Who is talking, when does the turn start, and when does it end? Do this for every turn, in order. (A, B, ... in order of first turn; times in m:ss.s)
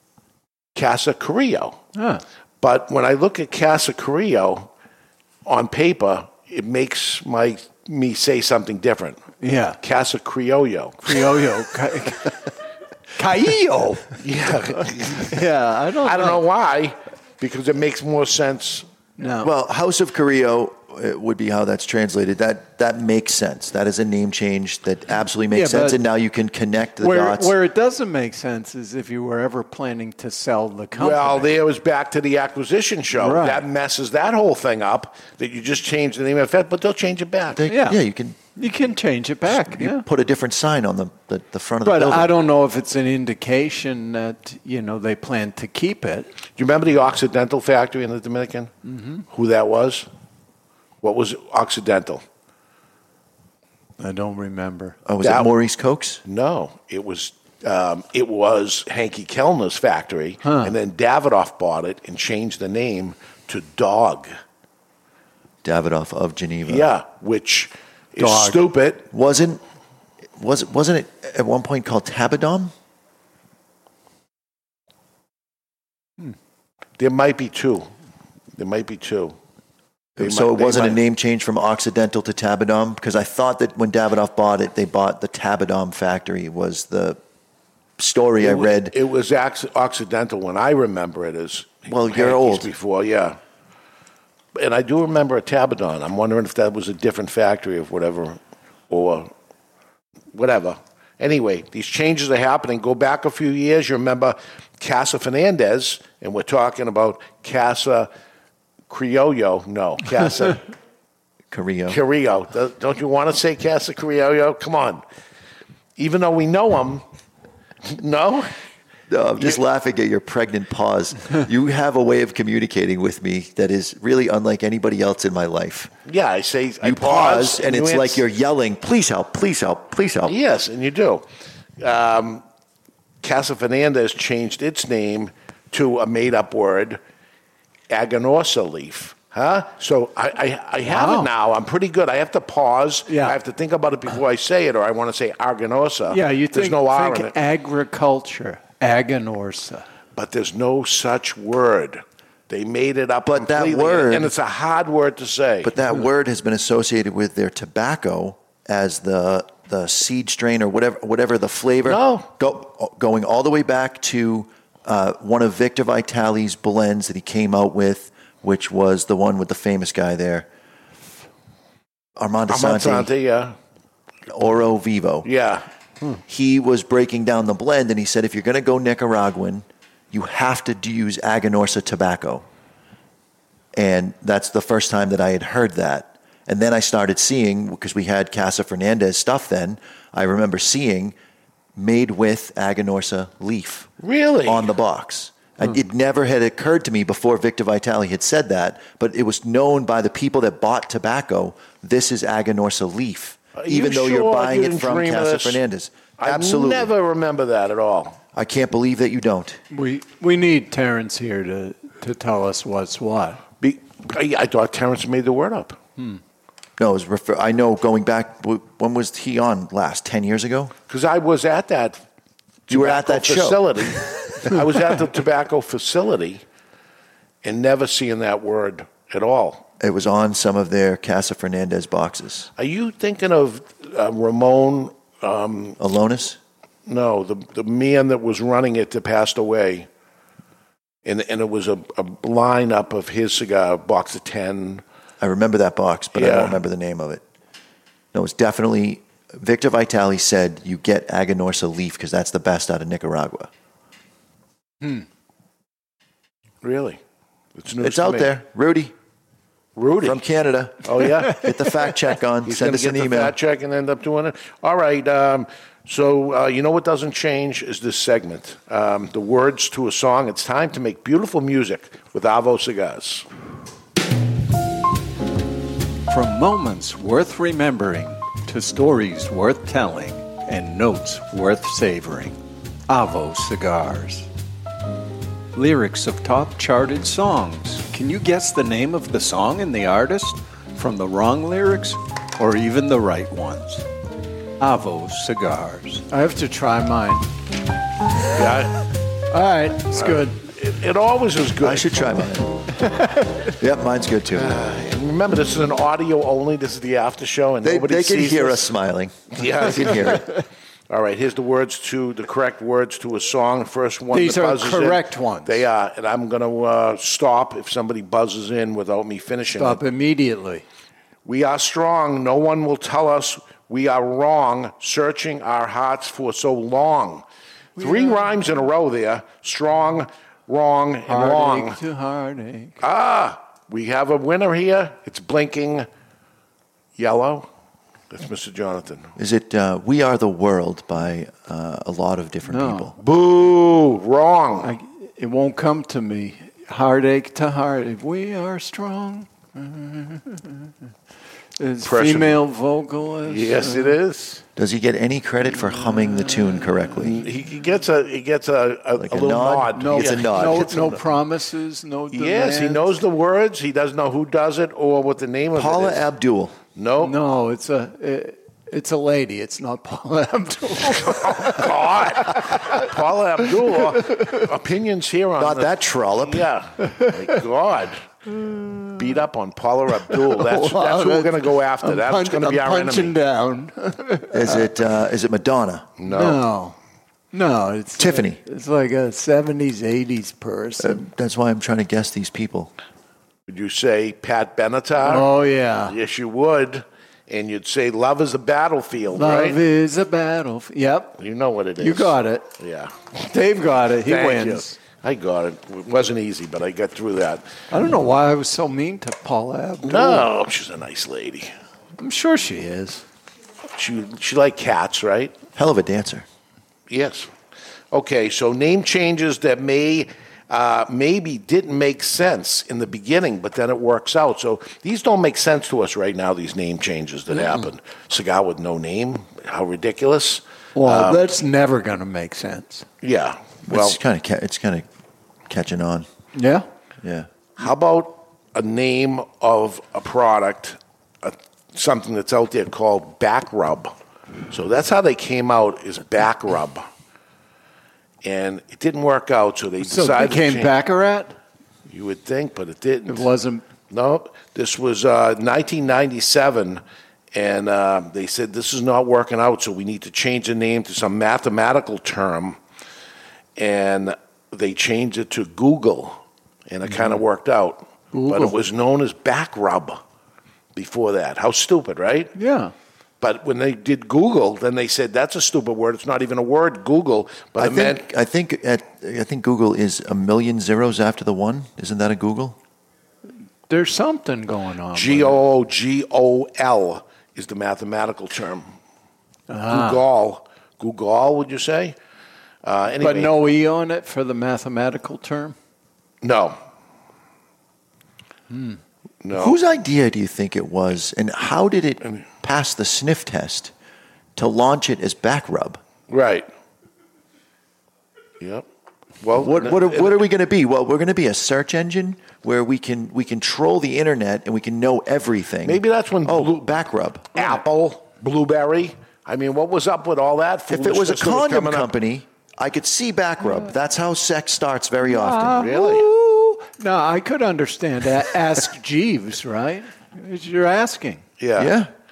0:00.7-0:01.8 A
0:01.9-0:02.2 B
0:02.6-0:04.7 A
0:05.4-0:11.4 A
0:09.4-0:09.8 B
0:11.0-0:12.5 B
0:13.2-0:14.2 B
0:14.2-0:15.4 A
0:15.1-0:16.4 B
0:16.0-0:18.9 A
0:19.2-0:19.5 B
0:19.4-0:27.5 C
0:25.5-0:26.0 B
0:27.0-0:31.5 B
0:30.9-0:37.7 A
0:33.2-0:33.6 B
0:37.5-0:38.4 C
0:37.7-0:38.0 B
0:38.6-0:40.0 B
0:39.5-0:42.3 C
0:41.8-0:46.3 B
0:46.6-0:48.7 A
0:48.8-0:49.2 B
0:49.3-0:50.1 A
0:51.0-0:52.2 A
0:54.0-0:55.0 B
0:55.0-0:56.2 C
0:55.2-0:55.5 A
0:56.2-1:04.3 A
1:00.4-1:00.7 B
1:05.6-1:06.9 C
1:06.6-1:09.1 A
1:08.2-1:08.6 B
1:09.1-1:09.6 C
1:10.4-1:12.7 C
1:17.0-1:17.9 A
1:18.6-1:19.3 A
1:20.2-1:27.2 C
1:20.2-1:21.0 A
1:28.0-1:28.9 C
1:28.4-1:33.4 A
1:31.9-1:32.7 C
1:34.5-1:38.4 A
1:38.9-1:39.3 A
1:40.3-1:48.1 A
1:48.9-1:50.6 A
1:51.5-1:52.0 C
1:51.9-1:55.0 A
1:56.0-1:57.0 A
1:57.8-1:58.5 A
1:59.1-2:05.9 C
2:06.0-2:08.2 A
2:06.8-2:10.4 C
2:10.3-2:11.2 A
2:11.8-2:12.4 A
2:13.2-2:17.0 A
2:17.9-2:27.3 A
2:20.8-2:21.3 B
2:23.1-2:23.4 B
2:26.1-2:29.9 B
2:30.1-2:35.7 A
2:33.2-2:34.3 C
2:35.6-2:50.5 C
2:41.8-2:42.3 A
2:52.2-2:53.1 C
2:52.5-2:53.5 A
2:54.3-2:55.3 C
2:55.2-2:55.6 A
2:56.3-3:02.4 C
3:03.7-3:11.2 C
3:11.8-3:13.9 C
3:14.0-3:14.7 A
3:14.4-3:26.9 C
3:23.5-3:25.6 A
3:26.2-3:28.2 A
3:28.3-3:29.6 C
3:29.7-3:33.4 B
3:33.6-3:35.8 A
3:36.8-3:40.7 C
3:40.9-3:42.0 A
3:42.7-3:46.4 A
3:42.7-3:44.0 C
3:47.4-3:49.6 A
3:49.8-3:52.5 C
3:52.6-3:55.8 A
3:55.8-3:56.4 C
3:56.8-3:59.9 A
4:01.0-4:04.8 A
4:05.2-4:07.2 C
4:06.1-4:06.6 A
4:08.1-4:13.5 C
4:16.6-4:17.0 A
4:17.5-4:18.3 A
4:17.8-4:18.9 C
4:19.8-4:20.2 A
4:20.0-4:23.4 C
4:20.8-4:21.5 A
4:22.4-4:33.2 A
4:36.1-4:44.3 B
4:45.5-4:53.9 B
4:54.6-4:57.3 B
4:58.3-4:58.8 A
4:59.3-5:00.4 B
5:00.0-5:02.3 A
5:01.6-5:02.6 C
5:02.8-5:03.3 B
5:03.5-5:04.5 C
5:04.3-5:08.7 A
5:07.6-5:10.2 C
5:09.3-5:19.8 A
5:14.1-5:15.6 B
5:19.5-5:20.6 B
5:21.2-5:27.2 A
5:27.8-5:28.4 B
5:27.8-5:31.8 A
5:31.1-5:32.8 B
5:32.8-5:35.9 A
5:37.0-5:37.5 A
5:38.1-5:39.1 A
5:39.2-5:43.0 C
5:42.4-5:42.9 B
5:43.0-5:44.7 A
5:44.6-5:50.7 B
5:51.6-5:54.0 B
5:51.8-5:52.4 A
5:53.2-5:54.4 A
5:54.6-5:57.2 C
5:57.0-6:00.9 A
5:59.0-6:01.0 C
5:59.8-6:02.9 B
6:02.1-6:06.0 A
6:05.5-6:06.6 C
6:06.7-6:07.2 A
6:07.0-6:12.8 B
6:11.0-6:18.0 A
6:14.1-6:14.4 B
6:15.4-6:16.5 C
6:16.8-6:17.2 B
6:18.4-6:19.0 B
6:19.0-6:23.1 A
6:20.0-6:24.7 B
6:24.3-6:25.9 C
6:26.0-6:26.4 A
6:26.0-6:26.8 B
6:27.3-6:31.0 B
6:28.0-6:28.4 C
6:30.8-6:32.7 C
6:33.5-6:35.3 A
6:35.0-6:36.0 B
6:35.9-6:39.6 A
6:39.1-6:41.2 B
6:41.2-6:43.0 A
6:41.8-6:42.5 B
6:43.2-6:44.8 B
6:44.0-6:47.5 A
6:47.7-6:50.3 B
6:49.8-6:51.5 A
6:52.0-6:53.0 B
6:53.8-6:55.3 A
6:55.6-6:56.2 C
6:56.9-6:57.3 A
6:57.9-7:11.2 A
7:10.8-7:12.8 B
7:13.0-7:14.0 A
7:13.7-7:14.8 C
7:15.5-7:16.1 C
7:16.3-7:16.6 B
7:17.0-7:17.3 C
7:17.6-7:23.9 A
7:24.5-7:26.8 A
7:28.2-7:30.7 A
7:29.8-7:31.3 B
7:31.9-7:33.3 A
7:33.1-7:33.6 B
7:33.9-7:36.8 A
7:37.3-7:42.6 A
7:43.6-7:50.0 A
7:48.1-7:48.5 B
7:50.7-7:52.3 A
7:52.3-7:52.7 B
7:53.2-7:58.0 A
7:57.6-8:02.6 C
8:03.7-8:05.4 B
8:04.9-8:08.7 A
8:09.5-8:10.0 B
8:09.7-8:12.0 A
8:12.6-8:13.3 A
8:13.0-8:15.6 B
8:16.2-8:16.6 A
8:18.5-8:18.8 B
8:19.2-8:19.6 A
8:19.3-8:23.7 C
8:24.4-8:25.8 C
8:26.1-8:26.5 A
8:28.4-8:28.6 A
8:29.2-8:30.2 A
8:29.4-8:37.4 C
8:35.6-8:36.8 A
8:37.3-8:41.9 A
8:40.7-8:45.7 C
8:45.1-8:51.2 B
8:45.5-8:46.1 A
8:51.4-8:51.8 A
8:51.6-8:51.9 C